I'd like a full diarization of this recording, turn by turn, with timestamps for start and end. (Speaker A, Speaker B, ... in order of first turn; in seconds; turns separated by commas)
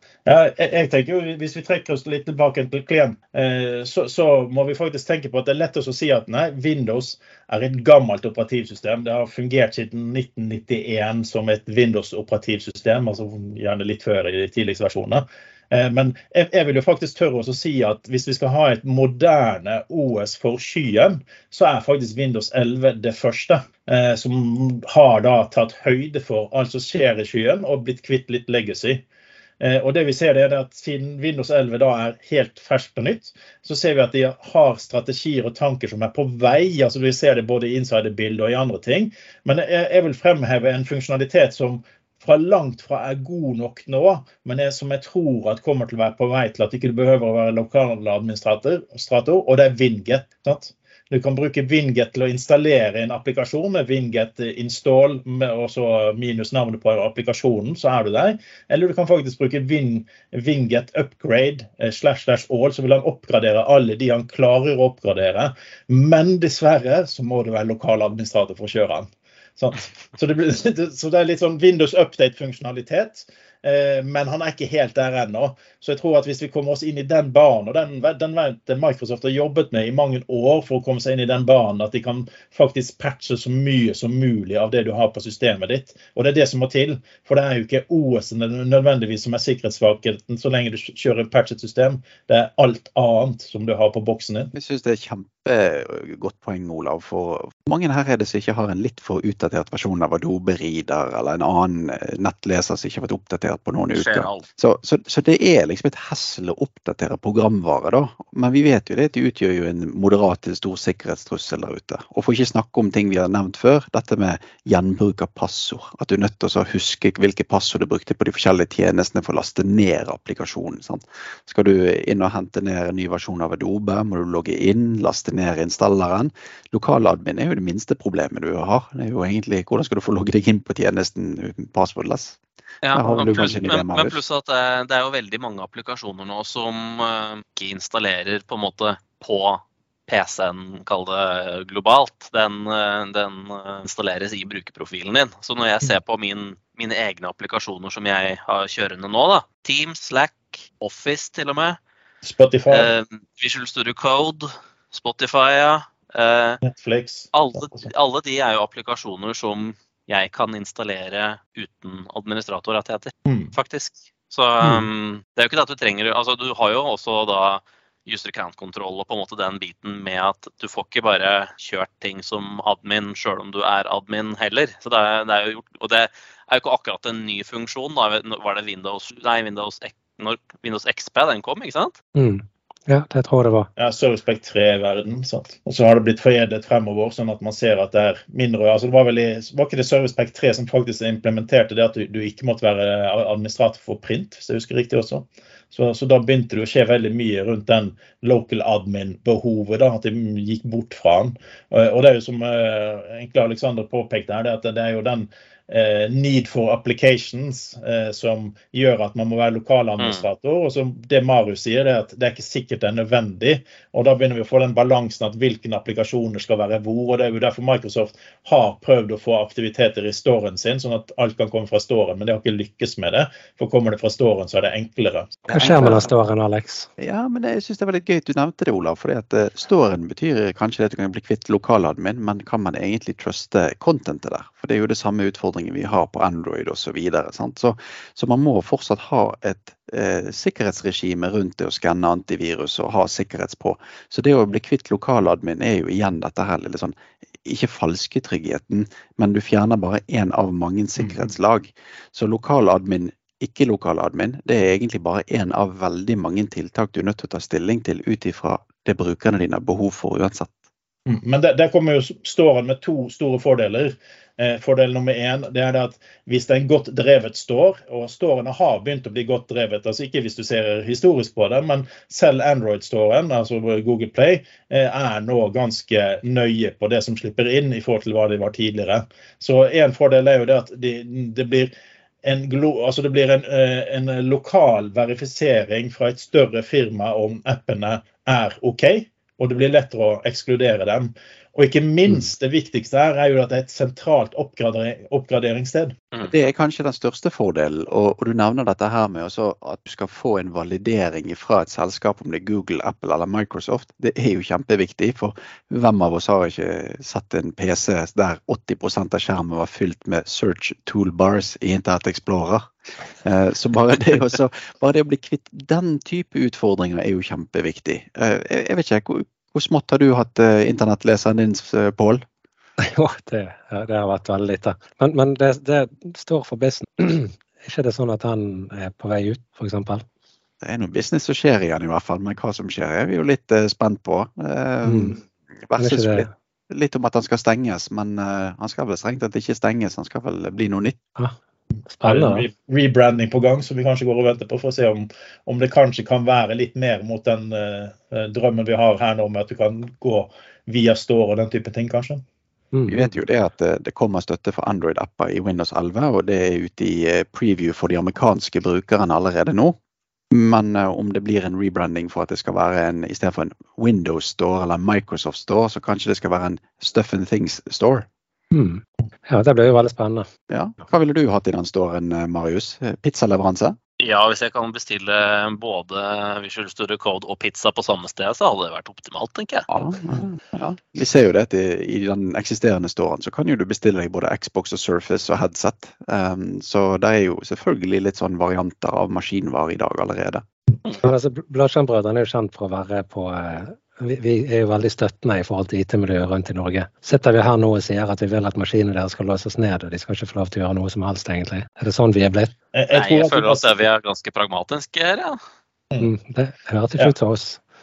Speaker A: 0.3-29.1, Speaker A: 29.6-94.5, Speaker B: 94.5-132.4, Speaker C: 103.9-104.5, Speaker C: 132.8-151.8, Speaker B: 132.9-134.2, Speaker A: 152.2-152.9, Speaker C: 152.7-156.6, Speaker A: 156.6-157.9, Speaker C: 157.3-182.0, Speaker A: 163.3-163.5, Speaker D: 164.6-164.9, Speaker D: 182.2-183.7, Speaker A: 183.8-225.4, Speaker C: 210.0-210.3, Speaker B: 225.5-226.1, Speaker D: 225.5-226.9, Speaker B: 227.0-260.6, Speaker A: 261.1-281.7, Speaker A: 282.2-296.0, Speaker B: 296.3-312.7, Speaker B: 313.2-322.2, Speaker D: 322.8-330.1, Speaker B: 330.6-341.0, Speaker D: 334.9-335.2, Speaker D: 335.8-336.3, Speaker D: 341.9-342.5, Speaker A: 342.0-352.2, Speaker D: 352.7-353.0, Speaker B: 352.9-359.8, Speaker B: 360.3-368.1, Speaker D: 368.5-370.3, Speaker B: 370.5-373.8, Speaker C: 374.0-379.7, Speaker B: 379.7-390.4, Speaker D: 391.0-402.5, Speaker A: 402.7-403.7, Speaker C: 402.9-405.4, Speaker D: 406.0-407.6